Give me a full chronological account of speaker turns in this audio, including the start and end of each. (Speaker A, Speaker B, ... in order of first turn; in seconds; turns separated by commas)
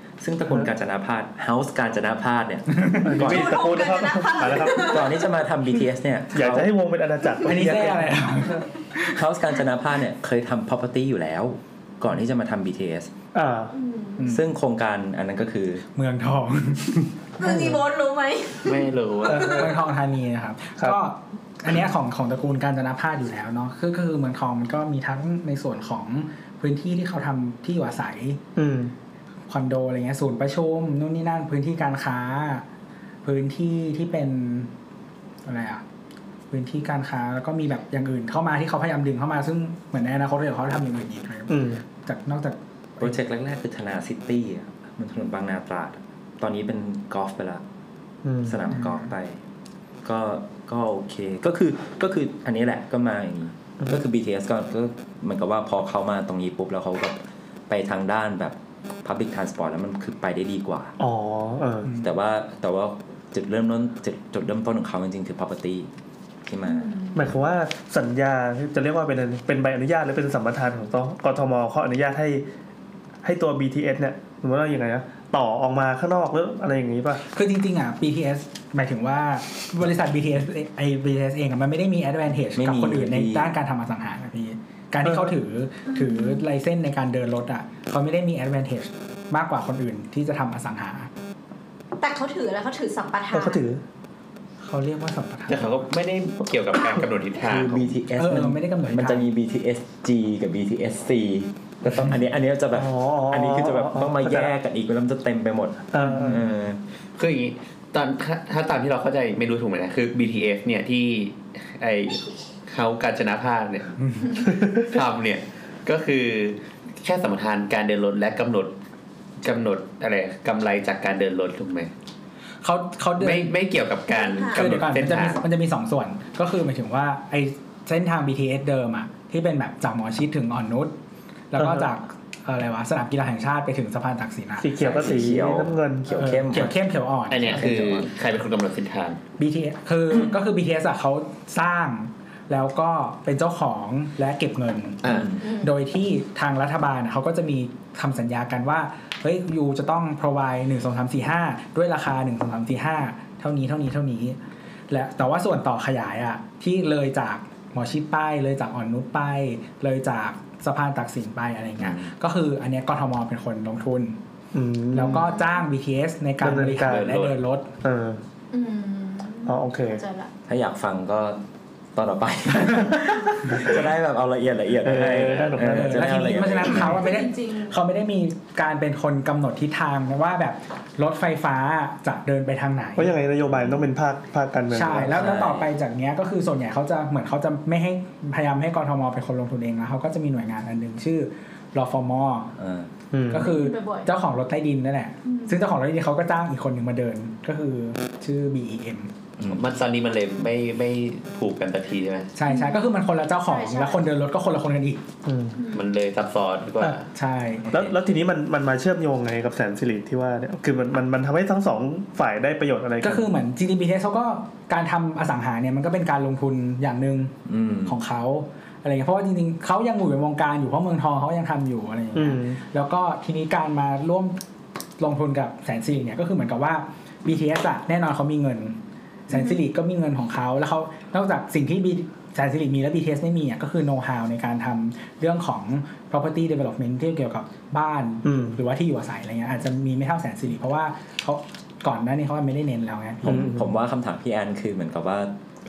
Speaker A: 0.2-3.6, Speaker B: 2.7-3.2, Speaker C: 3.0-5.0, Speaker D: 3.2-5.1, Speaker A: 4.7-6.7, Speaker C: 6.3-8.2, Speaker B: 7.4-9.2, Speaker A: 9.1-13.1, Speaker C: 13.3-13.7, Speaker D: 13.7-14.2, Speaker B: 14.2-14.5, Speaker A: 14.3-15.8, Speaker B: 15.9-17.8, Speaker D: 17.4-19.7, Speaker E: 18.6-19.6, Speaker C: 19.3-19.8, Speaker B: 19.4-28.4, Speaker C: 28.6-28.9, Speaker B: 29.5-32.6, Speaker B: 33.2-34.7, Speaker B: 35.5-35.8, Speaker B: 36.5-43.1, Speaker C: 41.5-41.8, Speaker A: 43.0-47.6, Speaker C: 48.2-48.6, Speaker A: 48.5-49.4, Speaker B: 48.7-49.1, Speaker A: 50.0-61.0, Speaker C: 61.0-61.9, Speaker A: 61.9-65.9, Speaker A: 66.5-66.9, Speaker D: 66.6-67.1, Speaker C: 67.1-72.5, Speaker C: 73.2-77.2, Speaker B: 77.2-91.1, Speaker A: 82.5-83.5, Speaker C: 85.0-85.3, Speaker D: 85.9-86.4, Speaker D: 92.0-93.6, Speaker C: 93.3-93.8, Speaker B: 94.6-95.9, Speaker E: 95.5-97.9, Speaker A: 97.4-106.8, Speaker B: 98.2-99.3, Speaker C: 102.7-104.5, Speaker C: 105.9-106.4, Speaker E: 107.2-118.7, Speaker C: 114.5-114.8, Speaker E: 119.4-121.9, Speaker B: 122.6-123.5, Speaker E: 123.2-125.4, Speaker D: 124.1-124.6, Speaker B: 124.5-130.9, Speaker B: 131.5-134.7, Speaker C: 131.6-131.9, Speaker C: 134.6-136.1, Speaker A: 134.8-136.8, Speaker B: 136.1-137.6, Speaker E: 137.3-139.2, Speaker A: 137.4-138.1, Speaker B: 139.4-145.0, Speaker E: 145.0-145.3, Speaker A: 145.1-145.4, Speaker D: 145.4-145.7, Speaker B: 145.6-154.4, Speaker B: 154.9-164.2, Speaker A: 161.8-162.1, Speaker C: 164.5-165.2, Speaker B: 164.9-167.7, Speaker D: 165.1-165.6, Speaker C: 166.4-167.0, Speaker E: 166.8-167.4, Speaker C: 167.8-168.2, Speaker D: 168.5-170.3, Speaker C: 169.5-170.0, Speaker A: 170.5-171.4, Speaker A: 171.9-177.1, Speaker C: 174.8-176.3, Speaker E: 175.1-175.6, Speaker B: 175.7-183.1, Speaker D: 176.6-177.8, Speaker C: 183.0-185.2, Speaker A: 183.5-183.8, Speaker B: 184.7-192.5, Speaker A: 185.1-185.6, Speaker A: 192.6-192.9, Speaker C: 193.1-193.5, Speaker B: 193.3-199.1, Speaker D: 193.4-194.1, Speaker D: 195.2-195.6, Speaker A: 199.4-199.6, Speaker E: 199.5-202.3, Speaker B: 202.4-205.1, Speaker D: 202.5-202.9, Speaker D: 203.4-204.1, Speaker C: 205.2-205.6, Speaker D: 205.6-205.8, Speaker E: 205.7-207.1, Speaker B: 206.8-207.8, Speaker C: 207.7-213.4, Speaker B: 213.0-217.3, Speaker A: 217.5-218.0, Speaker B: 217.8-224.4, Speaker C: 222.1-222.6, Speaker B: 225.0-228.8, Speaker B: 229.3-243.5, Speaker D: 229.3-229.6, Speaker C: 238.2-238.6, Speaker A: 243.2-245.3, Speaker C: 243.3-243.6